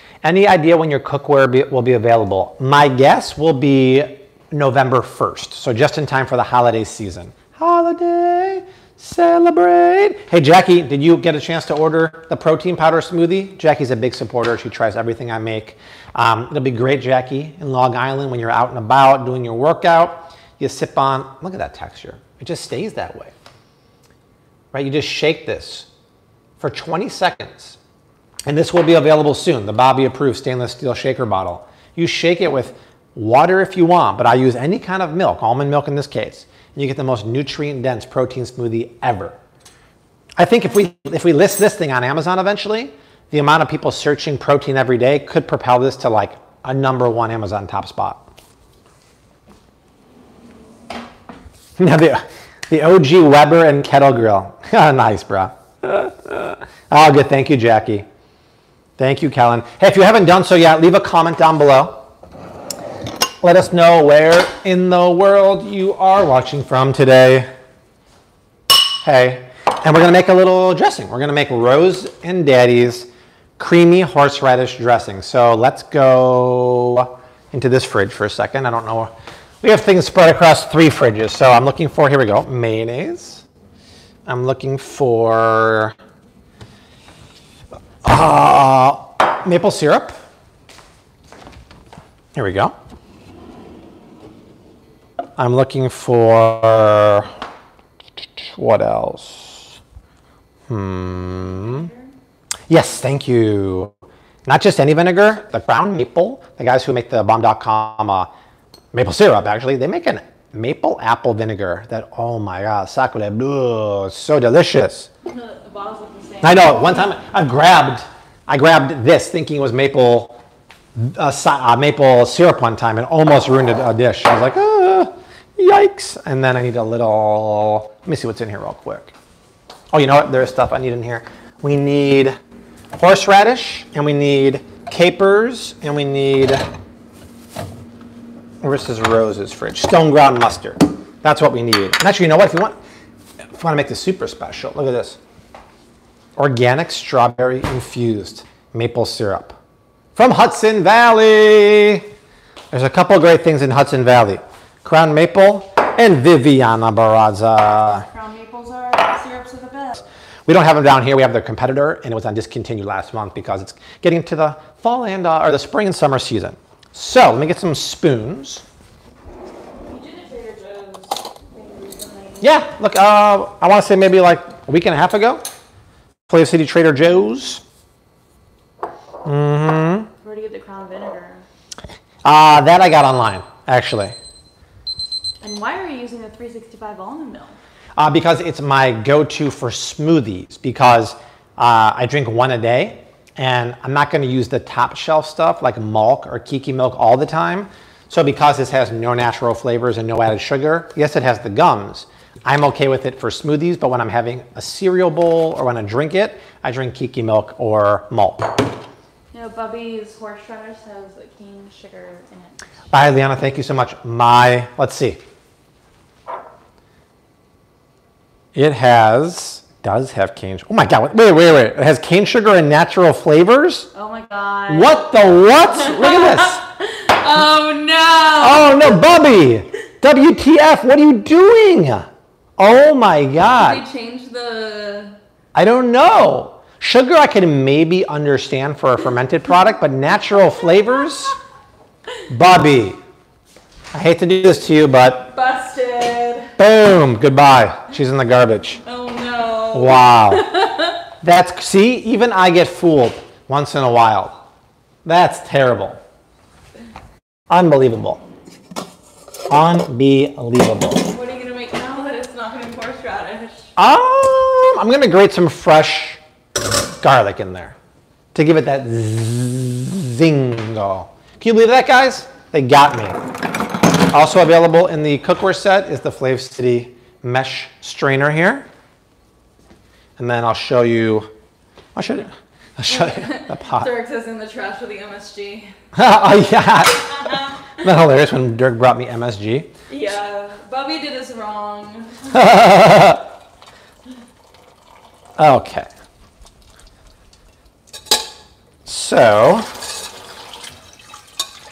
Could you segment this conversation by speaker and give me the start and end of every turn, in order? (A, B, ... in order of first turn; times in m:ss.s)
0:00.2-0:23.3 A
0:24.7-0:25.9 A
0:26.6-0:27.8 A
0:28.5-0:39.4 A
0:40.4-0:48.3 A
0:51.8-0:58.1 A
0:59.0-1:02.0 A
1:03.4-1:07.5 A
1:09.0-1:23.4 A
1:24.3-1:25.9 A
1:28.0-1:30.1 A
1:32.4-1:32.8 A
1:35.4-1:37.3 A
1:38.4-1:39.7 A
1:40.7-1:41.9 A
1:41.4-1:42.1 B
1:42.7-1:43.9 A
1:44.5-1:48.3 A
1:48.9-1:55.1 A
1:55.2-1:57.1 B
1:56.4-2:00.4 A
2:01.0-2:09.1 A
2:09.9-2:12.4 A
2:13.0-2:16.7 A
2:18.6-2:22.8 A
2:23.6-2:25.2 A
2:26.4-2:29.6 A
2:30.2-2:32.1 A
2:32.7-2:38.0 A
2:38.0-2:40.0 B
2:40.5-2:48.6 A
2:49.8-2:52.5 B
2:52.4-2:55.4 A
2:56.3-2:57.6 A
2:59.2-3:00.1 A
3:00.2-3:01.4 B
3:02.2-3:04.2 A
3:05.4-3:07.6 B
3:08.0-3:28.6 A
3:29.3-3:32.6 B
3:32.9-3:35.2 A
3:38.6-3:43.9 A
3:43.9-3:49.0 B
3:44.7-3:46.6 A
3:48.4-3:53.8 A
3:53.5-3:55.2 B
3:55.5-4:01.4 A
4:02.3-4:03.0 A
4:03.9-4:05.3 A
4:05.2-4:06.6 B
4:06.6-4:08.8 A
4:08.8-4:11.0 B
4:09.7-4:10.5 A
4:11.2-4:14.4 A
4:15.0-4:16.0 A
4:17.5-4:18.2 A
4:19.5-4:21.1 A
4:21.0-4:23.7 B
4:23.8-4:26.2 A
4:27.0-4:27.8 A
4:28.3-4:33.2 A
4:34.1-4:38.7 A
4:40.2-4:41.3 A
4:42.0-4:43.9 A
4:42.9-4:45.8 B
4:45.9-4:49.7 A
4:47.2-4:47.7 B
4:49.9-4:52.4 B
4:52.3-4:53.3 A
4:55.4-4:55.9 A
4:58.9-4:59.7 A